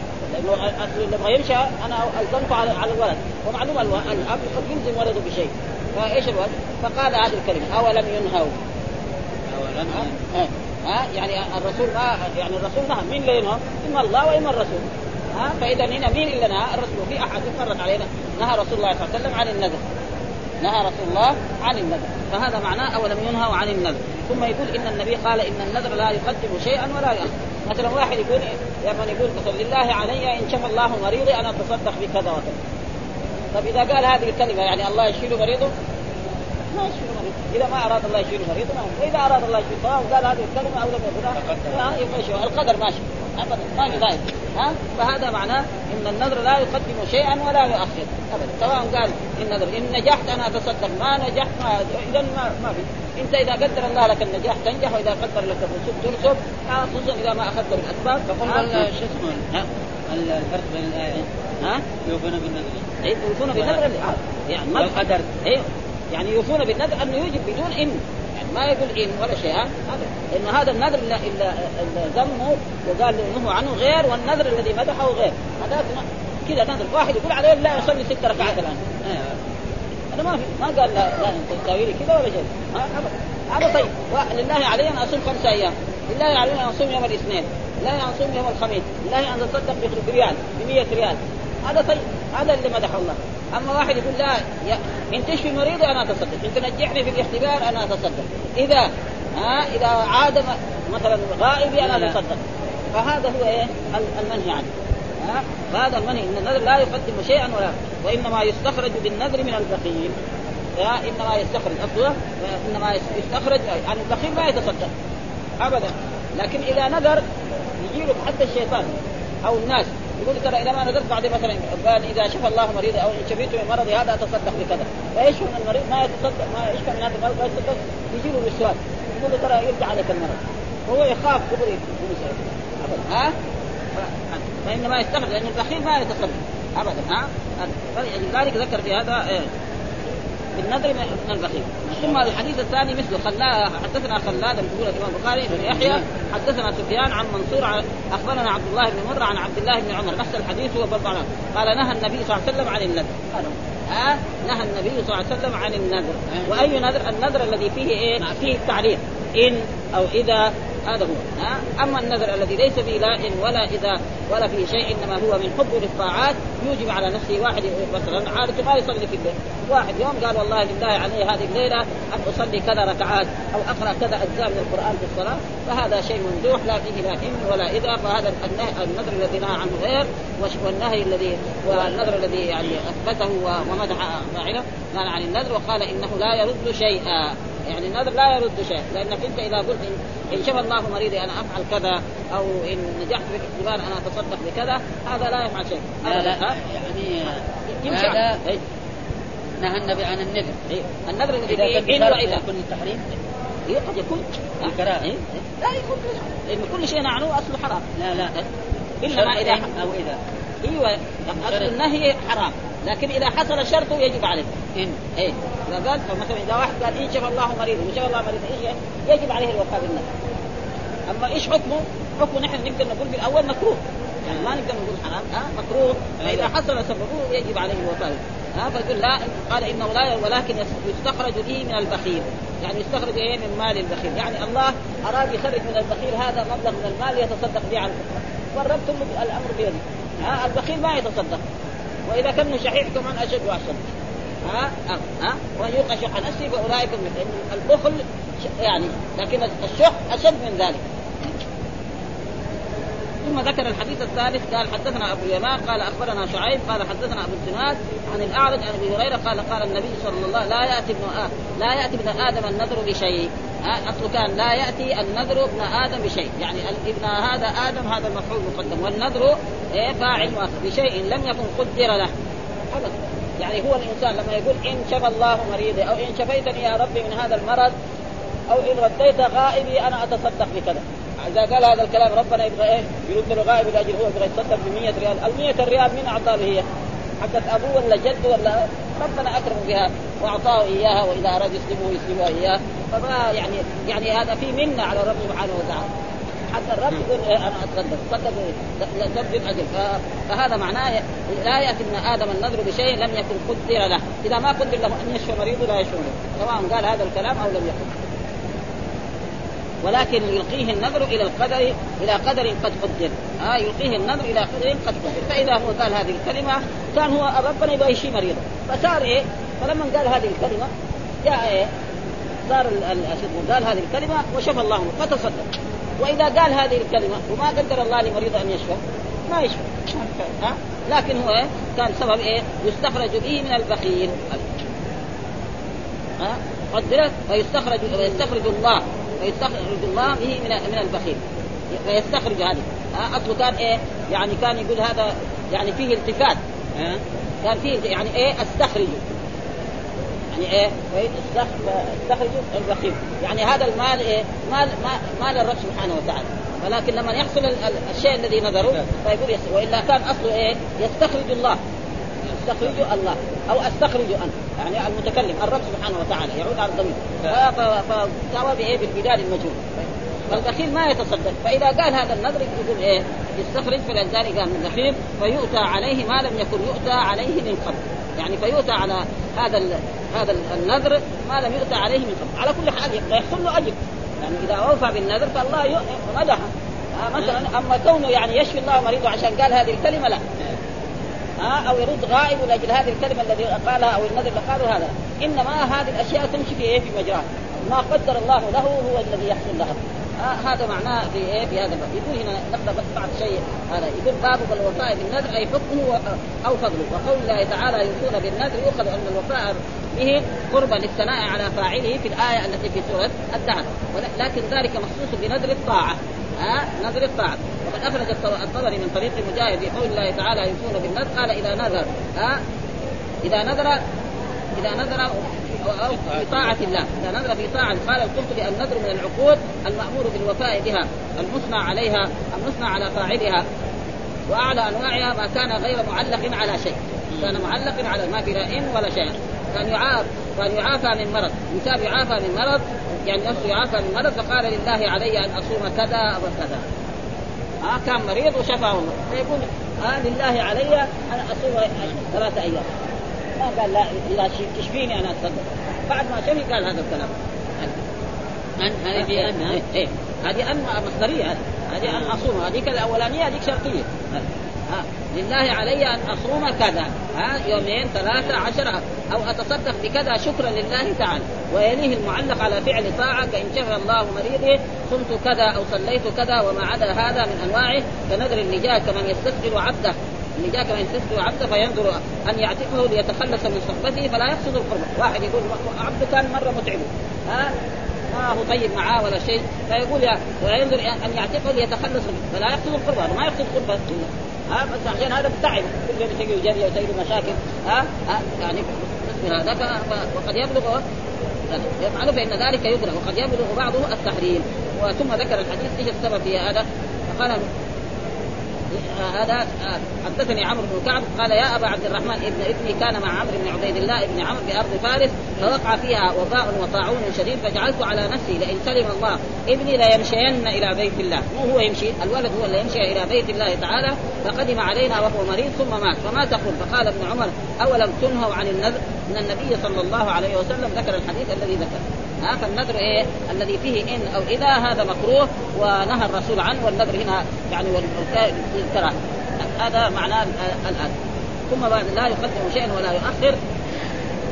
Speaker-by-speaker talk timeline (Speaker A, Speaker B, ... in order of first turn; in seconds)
Speaker A: 0.2-8.6, 9.9-19.8, 20.6-32.6, 33.5-35.7, 36.7-58.8, 63.0-79.1, 80.1-104.7, 105.2-110.2, 110.8-114.9, 115.6-117.2, 117.8-133.3, 133.9-139.5, 140.6-196.6, 197.7-198.6, 200.7-202.4, 203.7-208.4, 209.0-209.7, 210.6-214.6, 215.1-220.1, 221.1-241.4, 242.1-243.9, 244.4-251.3, 253.2-272.1, 272.7-277.7, 278.5-286.6, 287.2-295.9, 296.5-308.1, 309.8-320.7, 321.2-321.7, 322.4-325.5, 326.0-334.5, 336.2-346.4, 347.4-349.0, 350.3-361.6, 362.3-390.2, 391.4-422.4, 423.2-423.8, 424.6-433.4, 434.3-446.6, 447.6-452.7, 453.4-457.8, 458.9-487.6, 488.1-500.8, 501.5-507.5, 508.7-541.0, 541.5-543.4
Speaker B: 9.5-10.3, 41.4-42.0, 58.3-61.3, 62.0-62.9, 64.7-65.3, 101.9-102.2, 145.5-146.0, 156.3-156.7, 196.1-198.4, 199.6-200.6, 201.5-203.1, 204.6-205.1, 207.9-208.3, 209.1-210.2, 211.4-211.7, 226.2-226.5, 346.8-347.0, 437.1-437.4, 458.6-459.6